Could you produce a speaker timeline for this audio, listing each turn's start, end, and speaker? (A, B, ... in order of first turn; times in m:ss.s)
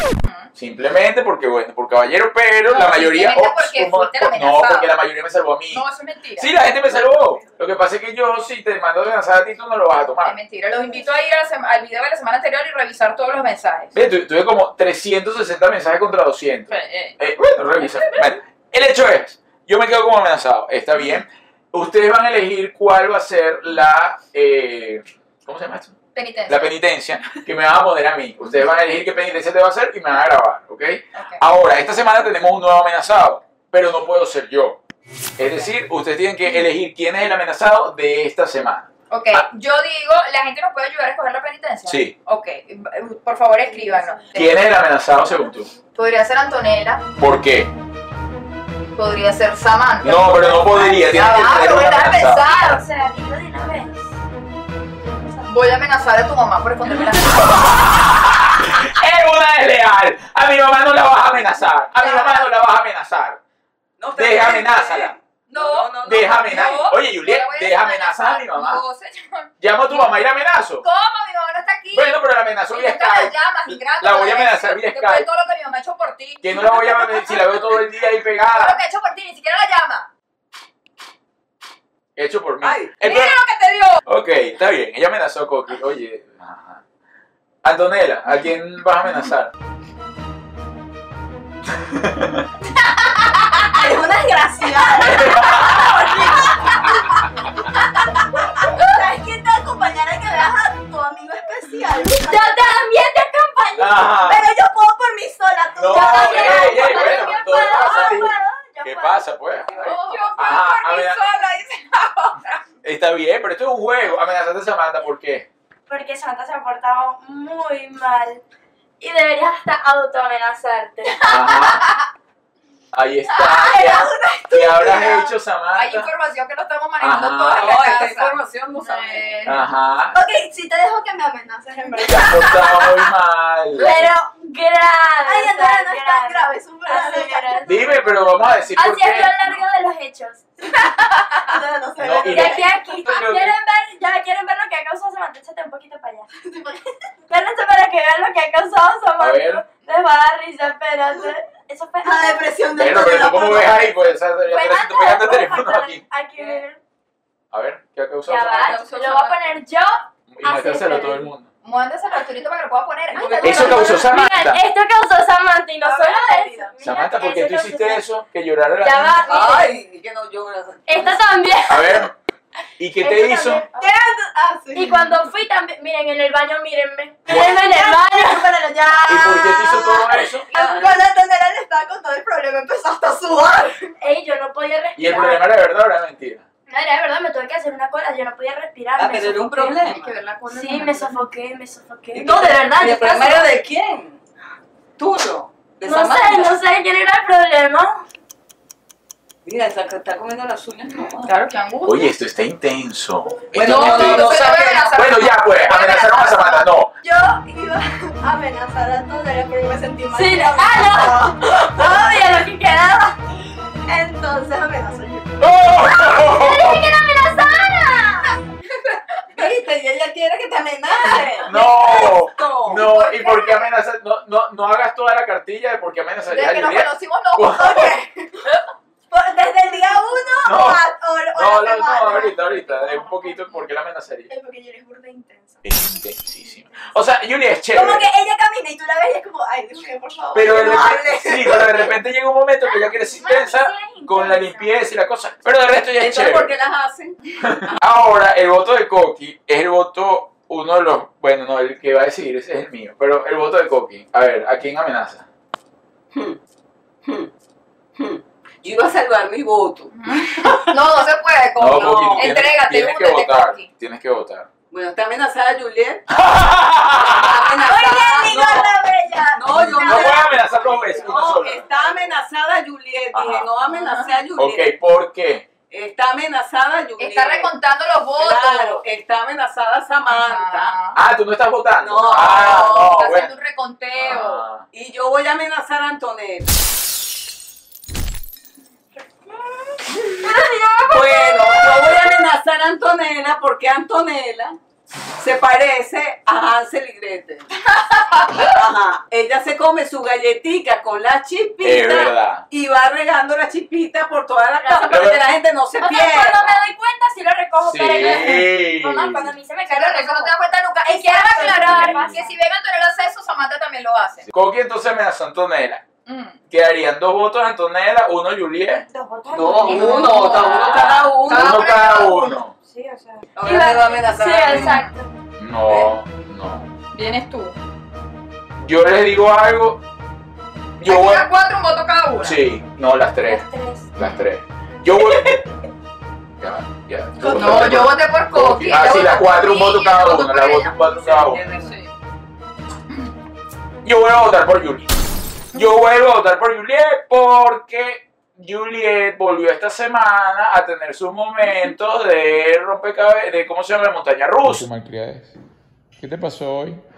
0:00.2-0:00.5 A
0:00.5-0:05.8 B
0:02.7-0:04.9 A
0:05.7-0:06.5 A
0:06.4-0:10.4 B
0:10.2-0:13.9 A
0:13.9-0:34.8 B
0:16.7-0:17.2 A
0:26.1-0:26.7 A
0:31.1-0:31.4 A
0:35.4-0:39.5 B
0:39.1-0:44.6 A
0:41.8-0:42.1 B
0:43.7-0:44.1 C
0:44.3-0:45.7 B
0:45.9-0:47.0 A
0:47.2-0:47.7 B
0:49.0-0:52.8 A
0:50.0-0:52.4 B
0:51.1-0:54.1 C
0:55.5-0:57.8 A
0:57.2-1:03.4 B
1:02.0-1:02.5 A
1:04.0-1:06.9 D
1:04.1-1:05.1 B
1:05.5-1:10.1 A
1:06.0-1:08.8 B
1:09.6-1:10.8 B
1:10.8-1:17.8 A
1:11.9-1:15.3 B
1:16.4-1:18.8 B
1:18.4-1:20.1 A
1:22.2-1:23.4 B
1:22.6-1:22.9 D
1:23.0-1:24.0 A
1:24.0-1:26.8 B
1:27.6-1:29.5 B
1:31.8-1:32.5 B
1:33.7-1:37.1 E
1:35.0-1:36.4 B
1:38.0-1:42.6 E
1:42.0-1:44.1 C
1:43.8-1:44.4 B
1:44.2-1:49.3 E
1:45.7-1:51.2 B
1:45.9-1:48.4 C
1:49.7-1:50.0 D
1:49.8-1:52.6 A
1:52.8-1:55.5 B
1:55.9-1:58.4 C
1:59.0-2:01.3 C
2:01.2-2:01.9 B
2:01.3-2:01.9 A
2:02.9-2:06.1 B
2:03.3-2:05.3 E
2:05.7-2:09.6 A
2:07.0-2:07.7 B
2:07.5-2:09.6 D
2:09.4-2:10.2 B
2:10.1-2:13.1 E
2:12.0-2:14.1 B
2:13.8-2:20.7 C
2:15.2-2:17.9 E
2:17.6-2:19.6 B
2:21.1-2:22.7 E
2:22.0-2:23.5 B
2:22.3-2:26.3 C
2:26.4-2:27.0 E
2:27.3-2:32.5 C
2:29.2-2:29.6 B
2:32.0-2:33.9 E
2:32.8-2:36.0 B
2:34.4-2:36.8 C
2:36.4-2:36.6 D
2:37.5-2:38.8 B
2:38.3-2:41.3 C
2:38.4-2:39.4 A
2:40.3-2:41.5 B
2:41.6-2:44.1 A
2:43.1-2:44.0 D
2:43.1-2:48.0 C
2:43.4-2:44.6 B
2:45.8-2:46.7 D
2:46.8-2:49.3 B
2:48.8-2:49.8 C
2:49.2-2:51.2 D
2:50.9-2:52.1 C
2:51.7-2:52.1 B
2:52.8-2:53.6 B
2:53.0-2:53.9 C
2:53.7-2:55.2 E
2:54.7-2:58.5 C
2:57.3-3:03.9 E
2:59.1-3:00.5 B
3:00.5-3:00.9 C
3:04.0-3:05.4 C
3:05.0-3:06.4 B
3:06.7-3:09.8 C
3:09.0-3:10.2 D
3:09.8-3:11.2 A
3:10.5-3:13.5 C
3:12.1-3:14.2 D
3:15.0-3:16.6 D
3:15.8-3:18.0 C
3:19.4-3:21.3 D
3:21.2-3:22.1 A
3:21.8-3:26.9 B
3:23.5-3:24.9 D
3:23.5-3:26.7 A
3:27.0-3:32.5 E
3:30.1-3:33.1 C
3:33.8-3:35.3 E
3:35.4-3:36.9 B
3:35.9-3:38.4 C
3:39.3-3:41.6 E
3:41.1-3:42.9 D
3:41.4-3:47.9 B
3:42.8-3:43.5 A
3:46.3-3:48.0 A
3:47.5-3:48.4 E
3:49.1-3:52.6 E
3:50.4-3:54.3 B
3:52.7-3:53.6 A
3:54.3-3:55.6 E
3:55.6-3:58.1 B
3:57.7-4:01.9 E
4:00.3-4:06.5 B
4:02.8-4:04.8 C
4:06.0-4:07.8 D
4:07.4-4:15.2 B
4:16.1-4:16.4 D
4:17.0-4:17.3 D
4:18.0-4:20.6 D
4:19.9-4:23.6 A
4:21.6-4:24.5 B
4:21.8-4:22.3 D
4:24.7-4:26.0 D
4:26.1-4:27.5 B
4:26.9-4:28.7 D
4:27.6-4:30.2 E
4:28.0-4:28.4 C
4:29.3-4:34.7 D
4:29.8-4:31.7 B
4:33.1-4:33.4 B
4:33.6-4:34.2 A
4:34.4-4:35.4 B
4:35.7-4:37.5 D
4:37.0-4:38.8 A
4:38.1-4:40.8 D
4:40.0-4:41.0 A
4:40.9-4:43.3 B
4:41.8-4:42.9 D
4:41.9-4:44.5 A
4:44.0-4:44.6 B
4:44.7-4:46.5 D
4:50.0-4:52.0 A
4:50.8-4:54.6 D
4:55.2-4:57.5 D
4:57.8-4:58.5 A
4:58.4-5:06.6 D
5:01.6-5:02.4 B
5:04.6-5:05.2 C
5:04.9-5:05.2 B
5:05.8-5:12.3 C
5:07.6-5:09.2 B
5:07.9-5:08.5 A
5:09.7-5:14.3 A
5:14.3-5:15.8 B
5:16.0-5:16.4 A
5:16.5-5:18.8 B
5:18.9-5:20.7 C
5:19.3-5:21.7 D
5:19.6-5:22.4 A
5:20.6-5:22.5 B
5:21.7-5:25.1 C
5:23.4-5:24.8 D
5:24.5-5:24.8 A
5:25.4-5:26.7 B
5:25.7-5:25.9 D
5:26.9-5:27.6 A
5:28.6-5:29.8 B
5:30.8-5:31.3 B
5:30.8-5:32.4 A
5:32.2-5:35.4 B
5:33.2-5:33.9 C
5:34.0-5:34.2 A
5:36.4-5:41.4 B
5:37.2-5:37.8 E
5:37.3-5:40.8 A
5:40.8-5:41.8 D
5:41.5-5:41.9 A
5:43.8-5:44.9 B
5:45.5-5:55.4 B
5:56.0-5:56.8 B